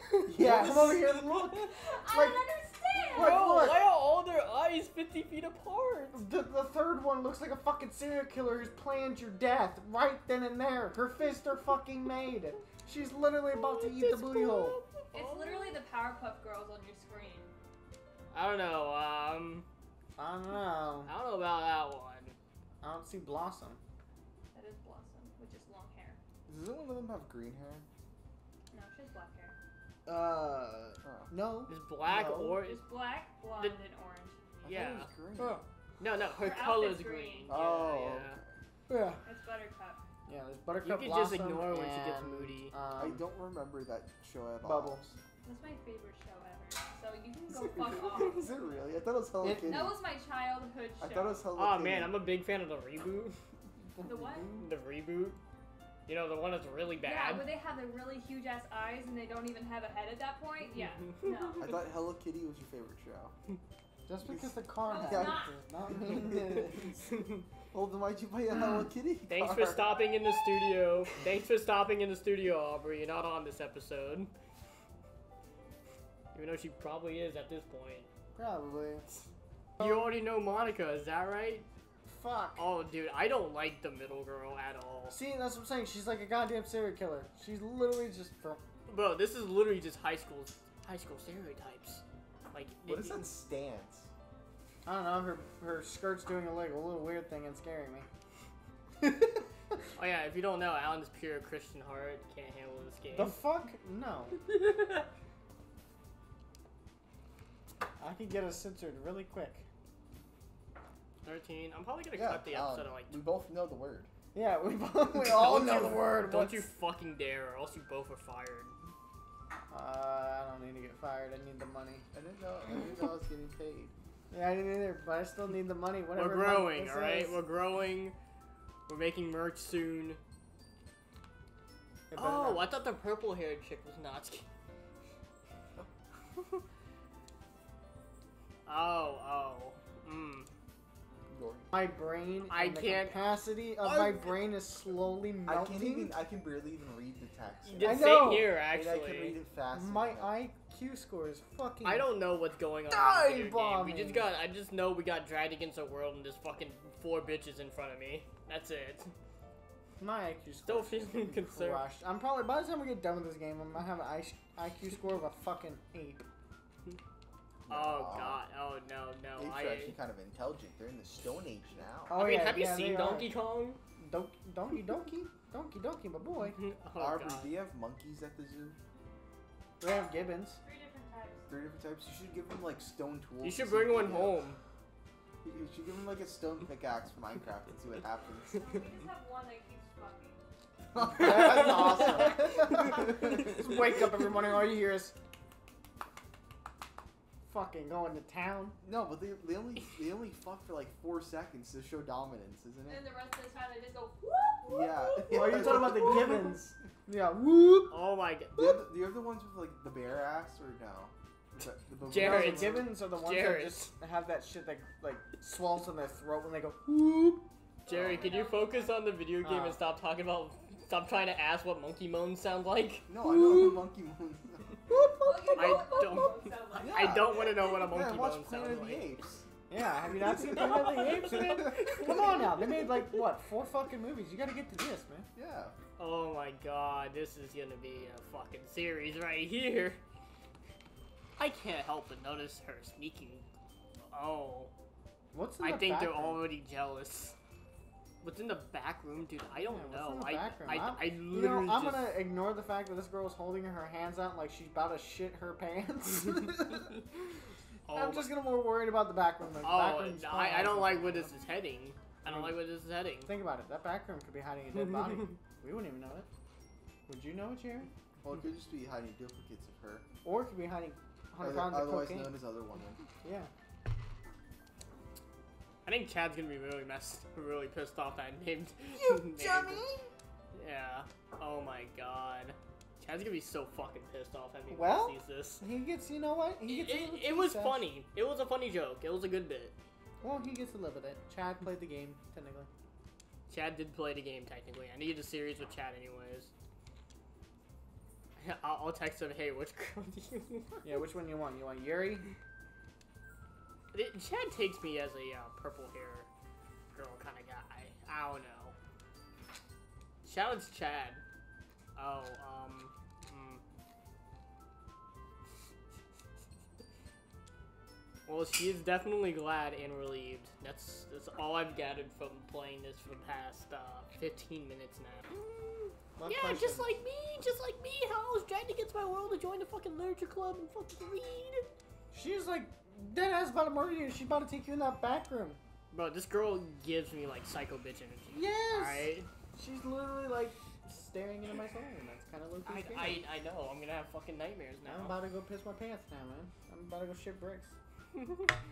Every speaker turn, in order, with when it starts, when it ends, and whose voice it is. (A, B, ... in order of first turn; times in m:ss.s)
0:00.3-0:01.3 A
0:00.3-0:02.5 B
0:00.4-0:01.7 C
0:01.8-0:03.5 D
0:03.0-0:03.8 B
0:03.1-0:06.2 C
0:06.1-0:14.8 B
0:13.5-0:15.8 C
0:15.1-0:17.5 D
0:18.3-0:19.6 C
0:20.2-0:21.1 B
0:21.0-0:22.4 C
0:22.8-0:23.8 B
0:24.5-0:26.2 D
0:26.5-0:27.8 A
0:28.7-0:29.5 D
0:30.1-0:31.3 A
0:30.1-0:32.6 B
0:31.7-0:32.8 C
0:32.6-0:34.6 D
0:34.6-0:35.6 A
0:34.6-0:35.1 C
0:35.4-0:35.6 B
0:36.0-0:38.4 C
0:36.4-0:37.5 D
0:37.5-0:38.5 A
0:38.9-0:39.2 B
0:39.2-0:40.0 D
0:40.3-0:43.2 B
0:40.8-0:42.7 C
0:43.0-0:45.1 A
0:44.6-0:45.2 B
0:45.4-0:48.5 D
0:47.5-0:50.0 A
0:49.4-0:49.8 B
0:49.6-0:51.5 D
0:51.0-0:52.2 A
0:51.5-0:53.4 C
0:54.0-0:54.7 B
0:54.0-0:54.5 D
0:54.6-0:55.4 C
0:56.1-0:57.5 C
0:57.0-1:01.7 D
1:01.2-1:01.6 C
1:01.6-1:03.3 A
1:04.1-1:06.9 B
1:04.2-1:05.4 A
1:04.8-1:05.6 D
1:06.1-1:07.0 A
1:07.1-1:07.4 C
1:07.7-1:10.0 A
1:09.3-1:14.3 C
1:16.3-1:18.1 C
1:18.4-1:19.0 B
1:19.8-1:20.0 B
1:19.8-1:21.6 C
1:22.0-1:22.6 B
1:22.6-1:25.2 C
1:25.1-1:28.6 B
1:28.9-1:33.2 C
1:32.8-1:34.1 A
1:34.8-1:38.1 B
1:39.0-1:39.4 B
1:40.0-1:43.4 C
1:43.1-1:44.4 B
1:44.5-1:45.0 C
1:48.0-1:49.6 B
1:51.2-1:53.2 C
1:52.1-1:54.1 A
1:54.3-1:56.7 B
1:55.2-1:58.7 C
1:59.7-2:02.0 B
2:02.1-2:03.9 A
2:04.3-2:07.4 B
2:06.2-2:08.1 C
2:08.9-2:10.2 C
2:12.1-2:12.6 B
2:12.1-2:14.4 C
2:18.6-2:20.5 C
2:21.3-2:21.7 A
2:21.7-2:26.2 B
2:22.5-2:23.2 C
2:23.8-2:24.5 C
2:25.4-2:30.4 A
2:27.6-2:29.4 C
2:27.8-2:28.5 B
2:29.7-2:32.1 B
2:31.8-2:39.1 C
2:32.9-2:34.3 B
2:40.0-2:46.2 B
2:40.6-2:41.8 C
2:47.6-2:48.4 A
2:47.7-2:50.0 C
2:49.4-2:52.1 A
2:52.1-2:53.3 B
2:52.1-2:53.8 C
2:54.0-2:56.6 B
2:56.4-2:57.6 C
2:57.0-2:58.8 A
2:59.8-3:00.6 B
2:59.8-3:01.5 D
3:01.5-3:04.4 A
3:03.4-3:04.6 C
3:05.4-3:09.0 A
3:08.5-3:10.4 D
3:10.9-3:13.5 A
3:11.1-3:15.2 B
3:17.4-3:18.8 B
3:18.8-3:23.1 A
3:22.9-3:26.6 D
3:24.6-3:26.7 A
3:25.3-3:27.9 B
3:27.9-3:28.6 C
3:28.6-3:32.9 A
3:32.1-3:33.9 C
3:32.1-3:37.5 B
3:37.8-3:39.0 D
3:37.9-3:43.1 C
3:37.9-3:38.5 A
3:39.4-3:39.8 B
3:43.1-3:44.6 A
3:43.2-3:43.9 B
3:44.9-3:46.1 B
3:45.2-3:47.3 D
3:45.5-3:49.1 C
3:46.8-3:49.5 A
3:49.7-3:55.3 B
3:50.2-3:52.1 A
3:50.5-3:52.8 C
3:55.3-3:55.7 A
3:56.0-4:00.0 C
4:01.4-4:03.4 C
4:04.1-4:04.7 C
4:05.3-4:06.4 B
4:05.6-4:07.4 C
4:08.2-4:12.2 C
4:09.6-4:17.0 B
4:17.9-4:18.3 C
4:17.9-4:21.3 B
4:19.6-4:23.3 C
4:22.2-4:22.6 B
4:23.2-4:26.3 B
4:25.0-4:25.3 C
4:27.1-4:27.9 B
4:28.2-4:30.0 A
4:30.2-4:32.4 B
4:31.4-4:33.0 A
4:33.2-4:33.5 B
4:35.8-4:39.8 C
4:39.1-4:40.0 A
4:39.2-4:39.8 B
4:40.5-4:45.6 C
4:44.7-4:47.8 B
4:46.7-4:49.7 C
4:50.2-4:52.7 B
4:53.5-4:56.5 C
4:58.4-5:00.8 C
5:00.8-5:02.2 B
5:03.9-5:06.3 C
5:06.9-5:08.7 C
5:10.2-5:11.2 C
5:12.0-5:13.6 C
5:18.3-5:31.6 C
5:26.2-5:27.0 B
5:32.1-5:35.6 B
5:35.9-5:39.3 C
5:38.3-5:43.2 B
5:42.6-5:45.2 C
5:44.8-5:47.7 B
5:48.1-5:48.5 C